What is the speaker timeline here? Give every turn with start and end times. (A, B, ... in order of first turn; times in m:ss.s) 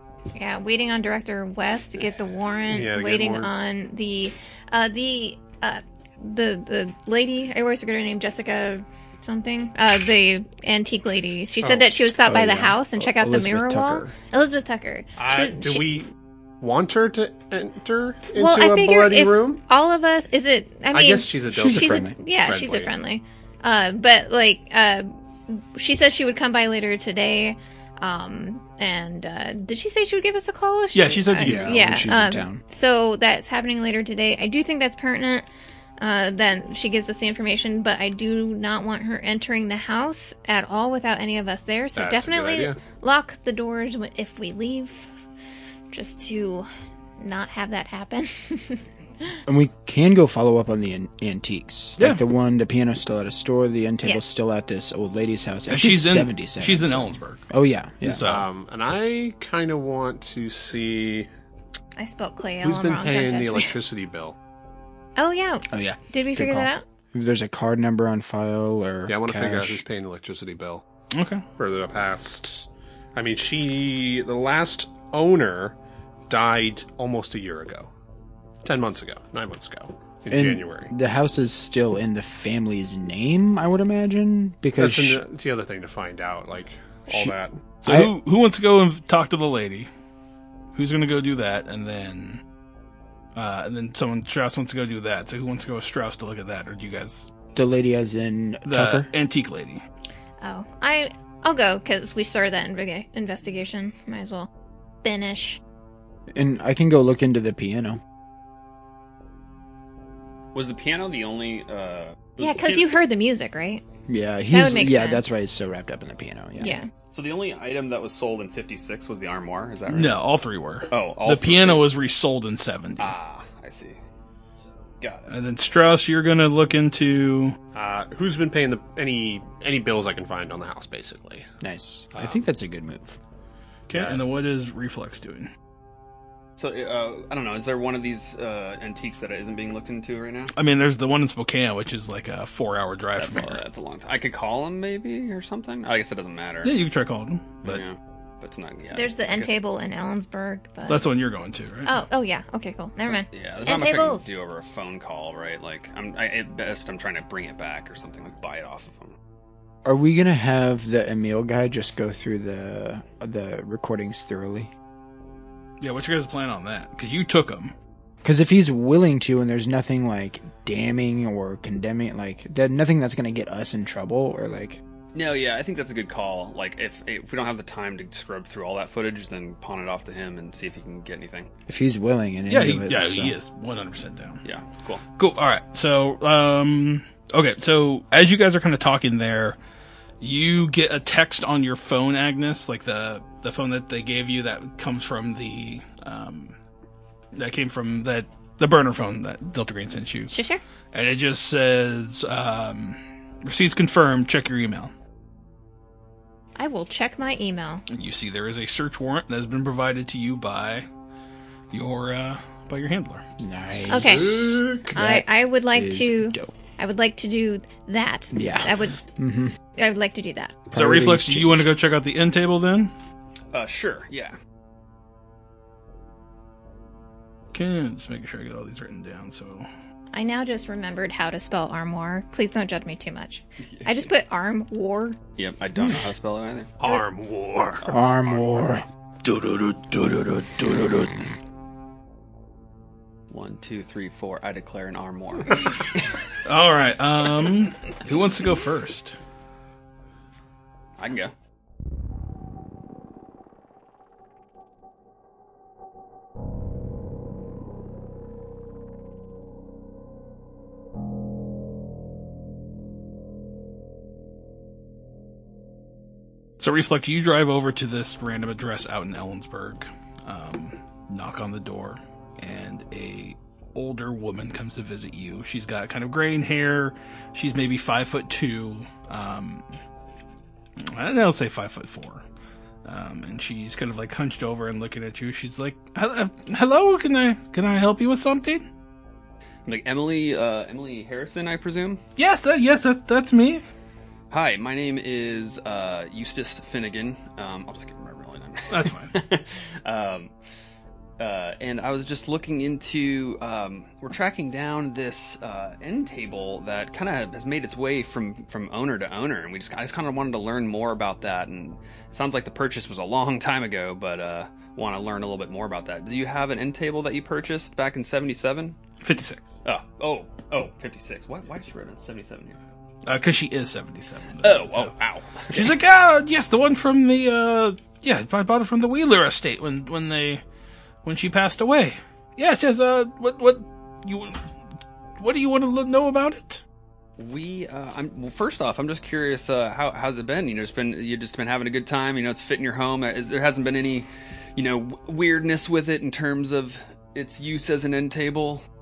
0:00.4-0:15.8 A
0:02.7-0:03.5 B
0:12.2-0:14.1 C
0:15.2-0:19.6 B
0:18.4-0:35.4 A
0:20.9-0:22.9 B
0:21.5-0:22.2 C
0:30.9-0:31.7 D
0:31.4-0:32.6 C
0:36.0-0:45.1 A
0:42.0-0:42.8 B
0:45.9-0:46.7 A
0:47.2-0:49.3 A
0:49.4-0:58.2 C
0:52.0-0:52.2 D
0:55.7-0:57.4 D
0:58.0-0:58.5 D
0:58.2-1:01.3 B
1:02.0-1:03.8 A
1:02.6-1:04.4 B
1:05.2-1:06.8 A
1:05.7-1:09.8 C
1:09.1-1:10.8 B
1:11.1-1:11.4 D
1:11.6-1:15.8 B
1:16.3-1:17.9 B
1:18.6-1:20.9 B
1:20.3-1:25.2 C
1:24.8-1:27.6 B
1:27.8-1:29.9 D
1:27.8-1:28.1 C
1:30.7-1:32.4 D
1:33.4-1:37.3 D
1:37.5-1:39.1 C
1:38.6-1:39.8 D
1:40.4-1:44.5 A
1:45.0-1:45.6 A
1:46.3-1:48.0 C
1:50.5-1:52.9 E
1:52.4-1:53.8 A
1:54.1-1:56.8 C
1:54.5-1:55.2 A
1:56.6-1:56.9 A
1:57.1-2:00.2 E
1:59.9-2:03.1 D
2:00.9-2:01.9 E
2:03.0-2:04.0 E
2:05.0-2:05.3 E
2:05.3-2:07.6 D
2:07.7-2:11.5 B
2:11.6-2:13.2 C
2:12.1-2:12.4 B
2:13.9-2:15.5 D
2:13.9-2:14.2 B
2:16.6-2:20.5 E
2:20.5-2:23.6 D
2:23.2-2:26.7 E
2:26.6-2:27.8 D
2:27.6-2:29.5 E
2:28.9-2:31.1 A
2:30.9-2:32.0 D
2:31.8-2:34.2 A
2:33.1-2:39.2 E
2:39.8-2:44.7 C
2:45.8-2:47.7 D
2:48.2-2:54.8 C
2:55.1-3:01.5 E
3:01.7-3:03.3 C
3:02.5-3:04.4 D
3:04.4-3:05.0 E
3:05.2-3:09.6 D
3:10.2-3:16.6 D
3:17.3-3:20.3 D
3:20.3-3:20.6 A
3:20.9-3:24.9 D
3:26.6-3:27.8 A
3:27.9-3:30.9 D
3:31.7-3:33.2 D
3:33.4-3:36.5 C
3:33.8-3:34.9 B
3:33.9-3:39.0 A
3:38.3-3:39.5 C
3:39.8-3:40.6 A
3:40.7-3:41.7 C
3:40.7-3:42.9 D
3:43.5-3:44.4 E
3:47.5-3:49.7 D
3:50.1-3:55.2 A
3:53.7-3:54.1 E
3:55.4-3:56.8 E
3:56.8-3:57.8 B
3:57.9-3:58.8 C
3:59.2-4:01.3 D
4:03.3-4:06.1 E
4:06.4-4:09.2 D
4:11.0-4:11.3 E
4:26.6-4:39.7 D
4:40.8-4:42.2 D
4:42.8-4:48.7 D
4:49.6-4:52.0 E
4:52.2-4:53.6 D
4:54.3-5:00.3 E
4:58.7-4:59.1 D
5:01.2-5:18.8 E
5:19.0-5:19.5 D
5:19.6-5:22.6 E
5:23.0-5:24.9 D
5:24.4-5:25.7 E
5:25.5-5:30.4 D
5:31.0-5:34.4 D
5:35.2-5:36.6 D
5:37.2-5:48.6 E